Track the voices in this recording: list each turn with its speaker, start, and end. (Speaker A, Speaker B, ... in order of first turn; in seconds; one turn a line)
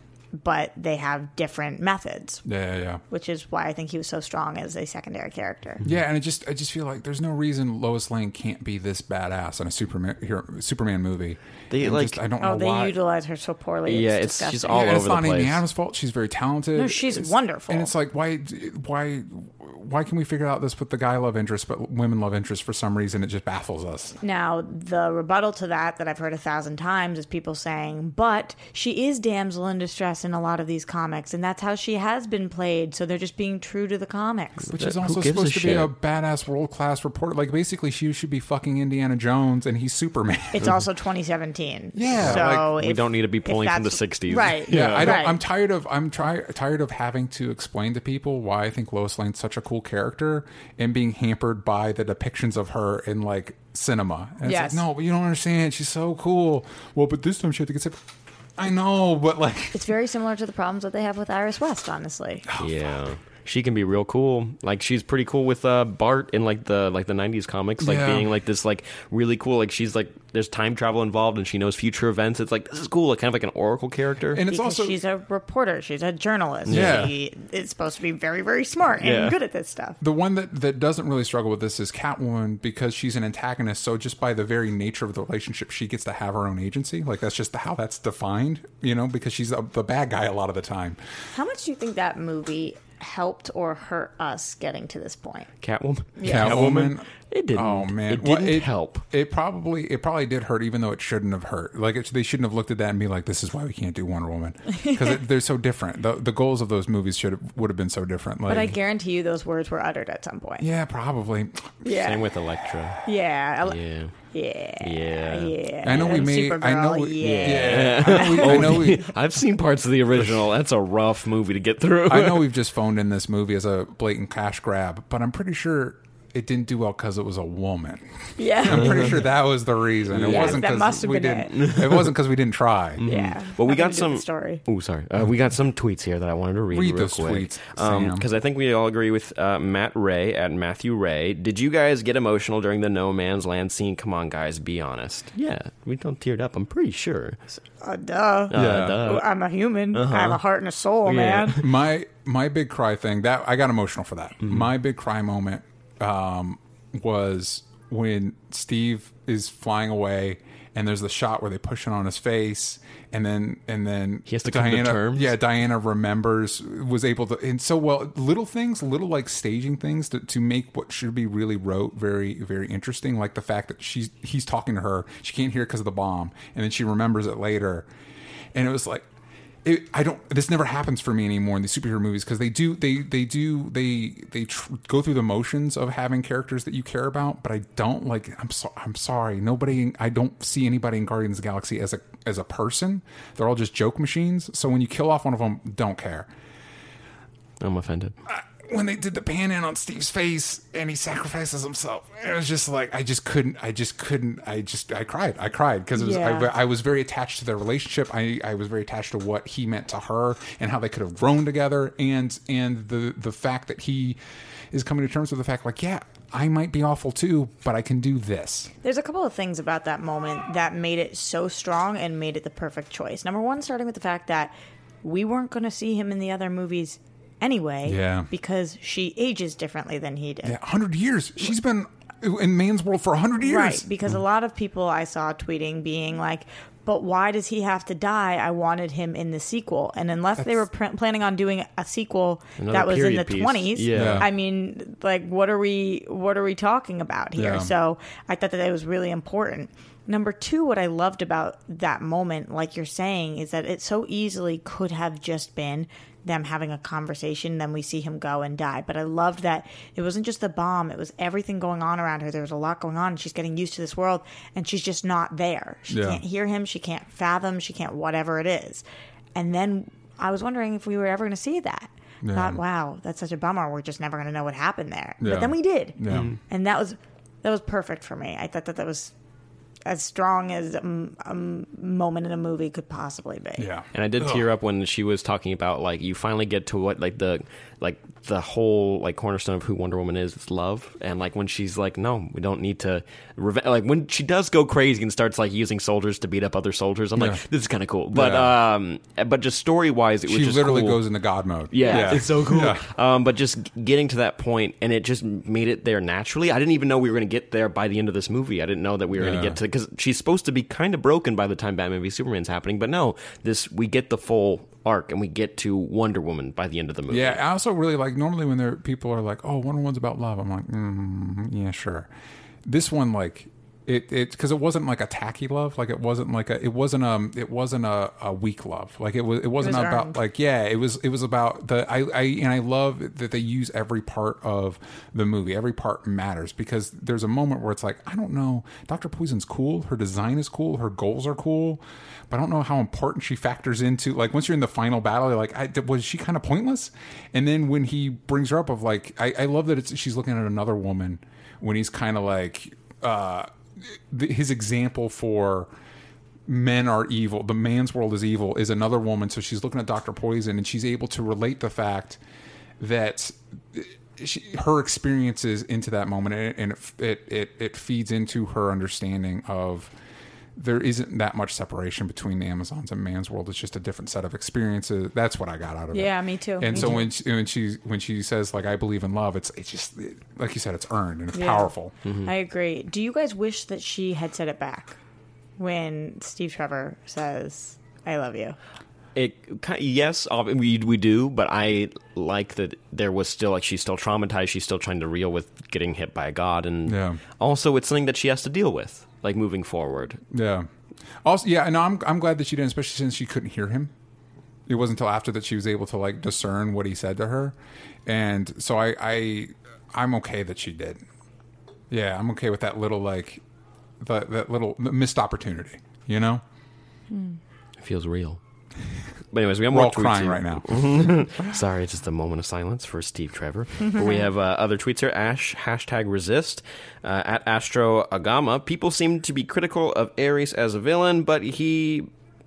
Speaker A: 0.3-2.4
Speaker B: 2.4-3.0
Speaker A: 3.1-5.8
Speaker B: 5.8-12.9
Speaker C: 11.7-12.2
Speaker A: 12.4-14.8
Speaker C: 13.8-15.6
Speaker B: 14.7-24.2
Speaker A: 16.7-17.9
Speaker A: 24.2-34.7
Speaker B: 34.7-40.7
Speaker C: 34.8-35.9
Speaker A: 40.5-45.4
Speaker B: 41.9-42.7
Speaker C: 42.2-45.2
Speaker B: 44.7-58.0
Speaker A: 54.4-54.8
Speaker B: 58.6-59.8
Speaker A: 59.7-62.5
Speaker B: 62.5-62.9
Speaker C: 62.6-74.4
Speaker B: 67.8-68.3
Speaker B: 74.3-75.0
Speaker A: 74.5-80.0
Speaker C: 76.7-77.1
Speaker B: 76.7-77.1
Speaker C: 79.0-79.3
Speaker B: 80.0-91.0
Speaker A: 91.3-95.5
Speaker C: 95.6-99.0
Speaker A: 96.2-96.7
Speaker B: 96.2-108.8
Speaker A: 104.7-105.2
Speaker A: 108.5-110.7
Speaker B: 110.6-111.8
Speaker A: 111.8-112.2
Speaker C: 111.8-113.0
Speaker A: 113.0-113.8
Speaker C: 113.6-114.1
Speaker A: 114.3-118.9
Speaker C: 114.8-116.3
Speaker B: 115.8-119.1
Speaker C: 117.2-122.5
Speaker B: 122.1-133.0
Speaker A: 128.4-129.2
Speaker C: 128.7-129.2
Speaker C: 130.1-130.6
Speaker A: 130.2-131.6
Speaker C: 131.5-132.2
Speaker C: 133.0-147.4
Speaker A: 133.1-134.6
Speaker B: 136.7-138.2
Speaker A: 147.8-151.6
Speaker C: 148.5-149.2
Speaker B: 148.5-149.0
Speaker C: 149.9-150.4
Speaker C: 151.0-151.7
Speaker B: 151.6-177.9
Speaker C: 164.3-165.3
Speaker B: 178.5-179.1
Speaker B: 179.6-196.3
Speaker C: 197.6-198.1
Speaker B: 198.3-214.2
Speaker A: 205.9-206.5
Speaker B: 214.7-218.7
Speaker A: 218.8-230.6
Speaker B: 227.8-228.3
Speaker B: 230.4-234.1
Speaker A: 233.4-268.8
Speaker C: 242.6-244.3
Speaker B: 243.9-244.3
Speaker B: 247.3-247.7
Speaker B: 265.9-266.2
Speaker A: 269.3-276.0
Speaker B: 272.2-272.6
Speaker B: 275.2-276.3
Speaker C: 276.1-276.4
Speaker A: 276.5-279.1
Speaker A: 279.9-283.7
Speaker B: 283.6-284.4
Speaker C: 283.9-301.0
Speaker B: 297.1-297.4
Speaker B: 298.1-298.6
Speaker B: 300.3-302.9
Speaker C: 301.7-317.4
Speaker A: 301.8-302.2
Speaker B: 309.1-309.6
Speaker B: 317.1-322.1
Speaker B: 322.6-355.7
Speaker A: 329.6-330.2
Speaker B: 356.5-362.2
Speaker B: 362.8-369.9
Speaker B: 370.6-381.9
Speaker A: 375.9-377.1
Speaker A: 381.3-381.7
Speaker C: 382.0-382.3
Speaker A: 382.2-385.0
Speaker A: 385.6-388.6
Speaker C: 389.1-400.2
Speaker B: 396.9-397.2
Speaker B: 400.3-400.7
Speaker B: 401.2-403.9
Speaker B: 404.7-407.5
Speaker B: 408.1-411.0
Speaker B: 411.9-413.4
Speaker B: 414.0-416.4
Speaker A: 417.1-417.4
Speaker C: 417.8-418.4
Speaker C: 419.3-432.1
Speaker B: 419.7-421.6
Speaker A: 423.8-424.3